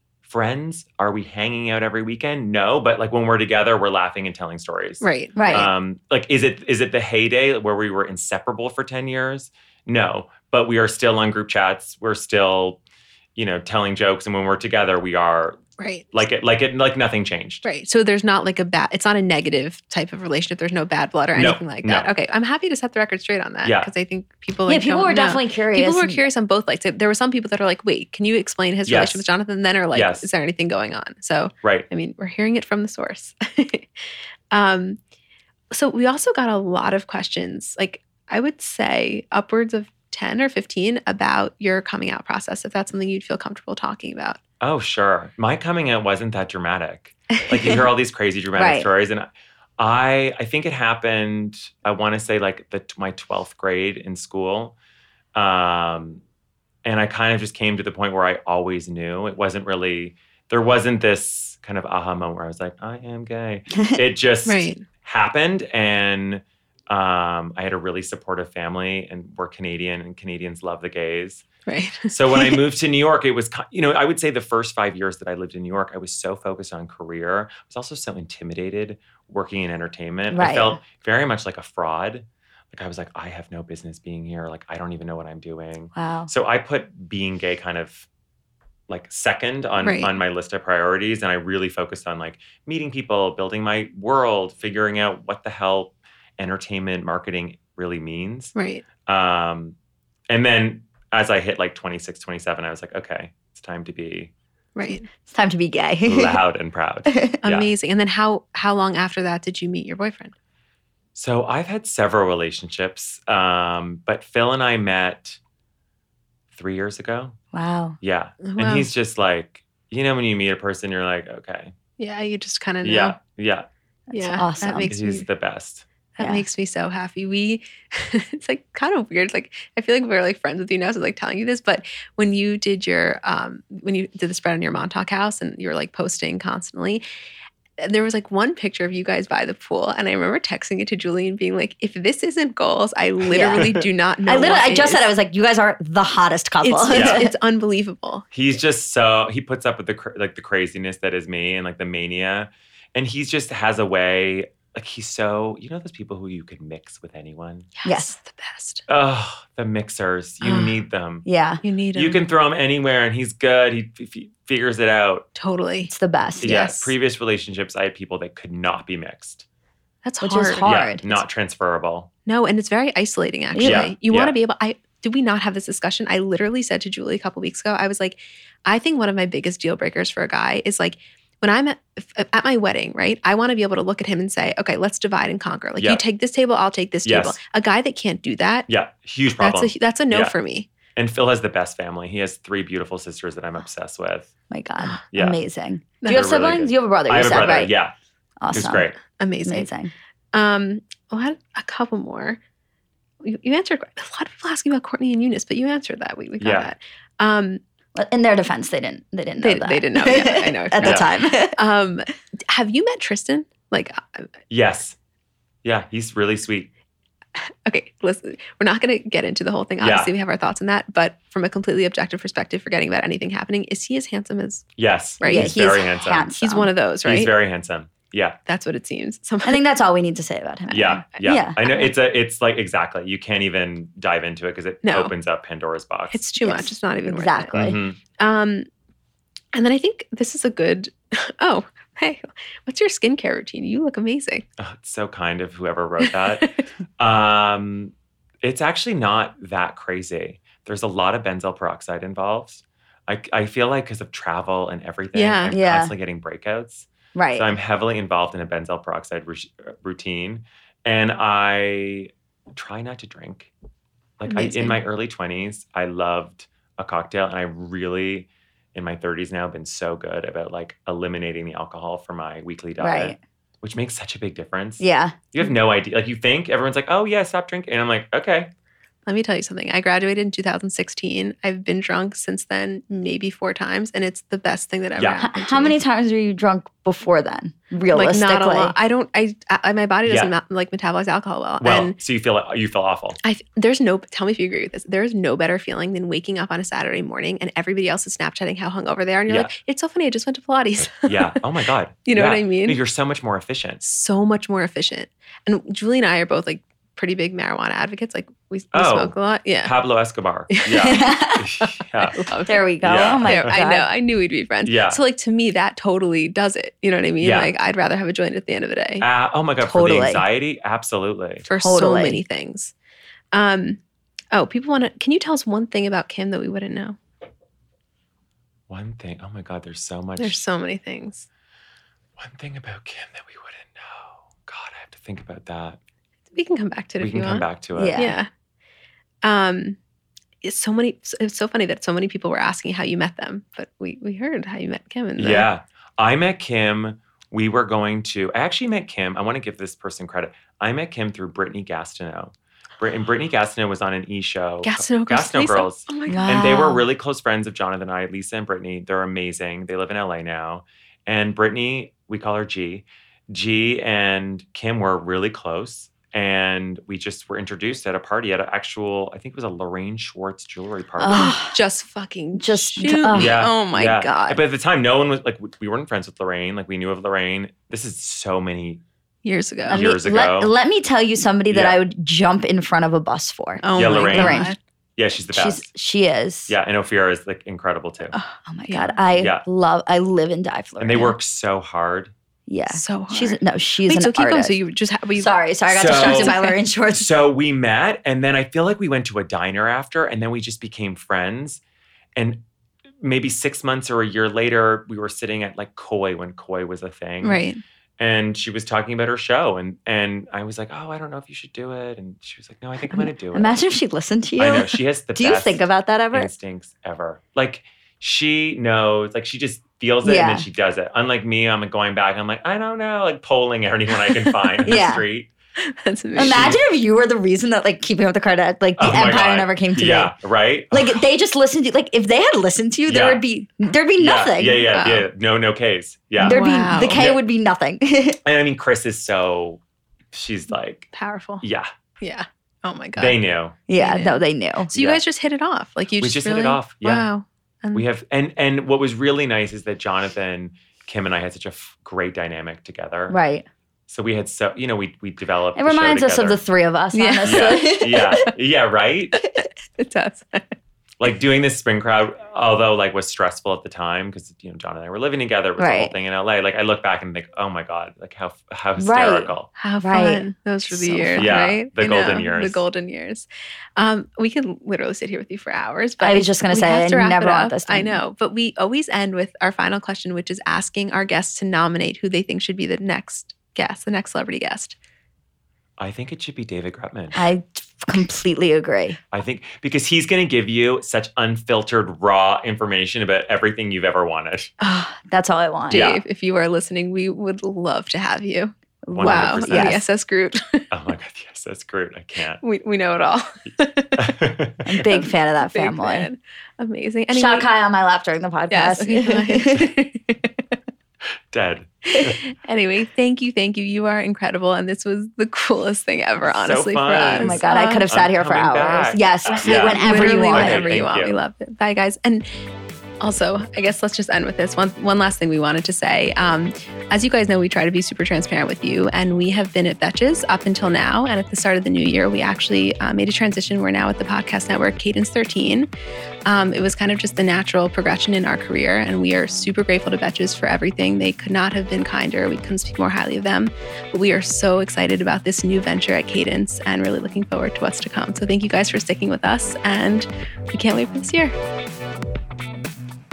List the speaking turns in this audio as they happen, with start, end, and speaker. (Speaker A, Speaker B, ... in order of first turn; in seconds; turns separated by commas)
Speaker A: 0.2-12.8, Speaker B: 5.0-5.7, Speaker C: 5.3-5.7, Speaker A: 13.3-15.6, Speaker B: 15.8-16.1, Speaker A: 16.1-17.6, Speaker B: 17.6-33.9, Speaker A: 21.3-22.1, Speaker A: 23.6-23.9, Speaker C: 24.7-26.3, Speaker A: 28.8-29.2, Speaker A: 29.9-30.3, Speaker B: 34.5-35.0, Speaker B: 35.7-44.4, Speaker A: 44.6-54.7, Speaker C: 48.5-48.9, Speaker A: 55.3-56.2, Speaker A: 56.8-71.5, Speaker B: 64.5-64.8, Speaker B: 71.7-72.6, Speaker A: 72.1-88.1, Speaker C: 80.3-80.8, Speaker C: 86.0-86.3, Speaker A: 88.9-99.8, Speaker B: 89.8-90.1, Speaker B: 98.5-98.8, Speaker A: 100.3-104.3, Speaker B: 104.7-105.1, Speaker C: 105.3-106.4, Speaker A: 106.0-107.7, Speaker C: 107.1-107.4, Speaker B: 107.4-110.3, Speaker A: 111.1-115.4, Speaker A: 116.5-117.4, Speaker C: 117.5-118.0, Speaker A: 118.0-121.7, Speaker B: 118.4-118.9, Speaker B: 122.0-123.2, Speaker A: 122.8-123.7, Speaker C: 124.1-124.9, Speaker B: 124.1-125.2, Speaker A: 124.9-125.8, Speaker B: 126.1-137.0, Speaker C: 126.2-126.4, Speaker B: 137.8-145.1, Speaker C: 143.3-143.7, Speaker A: 143.3-143.8, Speaker C: 144.2-147.3, Speaker B: 146.6-148.3, Speaker A: 146.9-147.3, Speaker A: 148.3-157.7, Speaker B: 157.8-158.8, Speaker C: 157.8-158.1, Speaker A: 158.9-161.2, Speaker B: 160.4-160.8, Speaker C: 161.2-161.6, Speaker B: 161.6-162.2, Speaker A: 161.9-165.3, Speaker B: 165.3-166.9, Speaker C: 165.9-166.5, Speaker A: 166.4-169.4, Speaker B: 170.0-170.9, Speaker C: 170.2-171.2, Speaker A: 170.6-172.1, Speaker B: 172.2-188.7, Speaker C: 173.5-173.9, Speaker A: 173.6-174.3, Speaker A: 187.0-187.4, Speaker A: 188.7-190.3, Speaker B: 189.4-190.7, Speaker A: 190.9-194.3, Speaker C: 194.5-197.7, Speaker A: 195.1-195.4, Speaker B: 196.0-196.4, Speaker A: 196.1-197.9, Speaker C: 198.4-198.9, Speaker A: 198.5-199.0, Speaker B: 199.1-199.7, Speaker C: 199.4-199.9, Speaker B: 200.3-202.4, Speaker B: 203.2-207.6, Speaker A: 206.4-206.7, Speaker C: 207.9-211.6, Speaker B: 209.4-214.2, Speaker A: 210.8-211.1, Speaker A: 214.5-215.0, Speaker A: 215.6-216.7, Speaker B: 217.4-227.3, Speaker A: 219.8-220.1, Speaker A: 224.8-226.3, Speaker C: 225.2-226.7, Speaker A: 227.0-228.4, Speaker B: 228.5-229.6, Speaker C: 229.4-231.9, Speaker A: 230.7-236.2, Speaker B: 234.8-235.1, Speaker B: 236.1-238.7, Speaker C: 236.4-237.8, Speaker A: 237.5-238.0, Speaker B: 239.5-244.4, Speaker A: 244.6-263.5, Speaker B: 246.0-246.5, Speaker B: 255.1-255.6, Speaker C: 255.5-255.9, Speaker C: 257.1-257.5, Speaker A: 264.2-278.5, Speaker B: 264.2-264.8, Speaker C: 272.8-273.2, Speaker C: 274.8-275.2, Speaker B: 279.1-285.8, Speaker A: 284.9-285.2, Speaker C: 285.2-288.8, Speaker B: 287.9-291.9, Speaker A: 290.1-290.3, Speaker A: 291.6-293.2, Speaker B: 293.2-301.4, Speaker A: 300.9-303.8, Speaker B: 302.1-302.8, Speaker B: 303.8-309.8, Speaker A: 308.7-312.2, Speaker B: 310.5-311.1, Speaker C: 310.8-311.5, Speaker B: 312.1-319.1, Speaker C: 312.4-313.9, Speaker A: 312.8-313.5, Speaker A: 314.6-315.0, Speaker A: 317.2-317.5, Speaker A: 319.0-321.5, Speaker C: 319.6-320.2, Speaker B: 321.4-322.7, Speaker C: 321.6-322.2, Speaker B: 323.3-323.8, Speaker B: 324.3-327.0, Speaker A: 328.7-330.4, Speaker B: 330.2-331.3, Speaker A: 332.2-335.8, Speaker B: 336.3-338.3, Speaker A: 337.0-338.0, Speaker C: 337.7-338.2, Speaker B: 339.2-339.8, Speaker B: 340.4-345.5, Speaker A: 345.2-371.4, Speaker B: 354.6-356.8, Speaker C: 356.1-356.8, Speaker C: 371.0-371.6, Speaker B: 371.1-374.4, Speaker C: 372.4-373.5, Speaker A: 373.1-378.8, Speaker B: 379.2-379.9, Speaker C: 379.7-384.6, Speaker A: 379.7-380.5, Speaker A: 381.5-381.8, Speaker B: 383.6-384.6, Speaker A: 383.8-385.6, Speaker C: 385.3-386.5, Speaker A: 386.5-388.1, Speaker B: 388.1-389.0, Speaker C: 388.5-391.2, Speaker A: 389.1-389.4, Speaker A: 390.8-392.1, Speaker C: 392.5-394.6, Speaker B: 392.7-396.6, Speaker C: 395.2-397.1, Speaker A: 395.7-396.4, Speaker A: 396.9-401.6, Speaker A: 402.1-402.4, Speaker A: 403.0-407.4, Speaker B: 407.2-407.6, Speaker A: 408.0-413.6, Speaker C: 412.9-416.3, Speaker A: 414.4-425.3, Speaker C: 420.0-420.4, Speaker B: 424.3-424.9, Speaker C: 424.6-425.0, Speaker B: 425.6-426.6, Speaker C: 426.1-430.1, Speaker A: 426.2-426.6, Speaker A: 428.8-431.1, Speaker C: 430.7-434.7, Speaker A: 432.9-433.2, Speaker A: 434.0-437.2, Speaker B: 434.7-435.1, Speaker B: 436.2-437.1, Speaker C: 436.2-438.2, Speaker A: 438.2-439.6, Speaker A: 440.1-440.9, Speaker B: 440.9-441.4, Speaker A: 441.4-441.7, Speaker B: 442.0-443.2, Speaker A: 442.9-443.6, Speaker C: 443.7-444.7, Speaker B: 443.7-444.2, Speaker B: 444.7-447.9, Speaker A: 444.7-445.0, Speaker A: 446.0-447.1, Speaker A: 447.7-453.2, Speaker C: 453.1-453.4, Speaker A: 453.9-456.4, Speaker C: 455.6-458.1, Speaker B: 456.9-458.2, Speaker A: 457.2-459.3, Speaker B: 459.4-460.5, Speaker A: 461.0-469.5, Speaker C: 465.6-465.9, Speaker C: 468.8-471.3, Speaker B: 469.6-484.8, Speaker A: 471.1-472.6, Speaker C: 476.0-478.0, Speaker A: 485.8-487.2, Speaker C: 487.1-489.0, Speaker A: 489.1-494.5, Speaker C: 494.6-495.9, Speaker B: 495.7-500.7, Speaker A: 495.7-496.0, Speaker C: 498.9-499.8, Speaker A: 498.9-499.8, Speaker A: 500.7-502.4, Speaker B: 502.4-504.1, Speaker A: 503.9-504.6, Speaker C: 504.6-506.1, Speaker B: 504.8-507.5, Speaker C: 507.1-509.8, Speaker B: 508.5-510.0, Speaker A: 511.3-512.2, Speaker B: 511.9-517.9, Speaker A: 516.2-521.2, Speaker C: 517.0-520.9, Speaker B: 519.3-522.3, Speaker B: 523.0-535.7, Speaker B: 536.2-551.3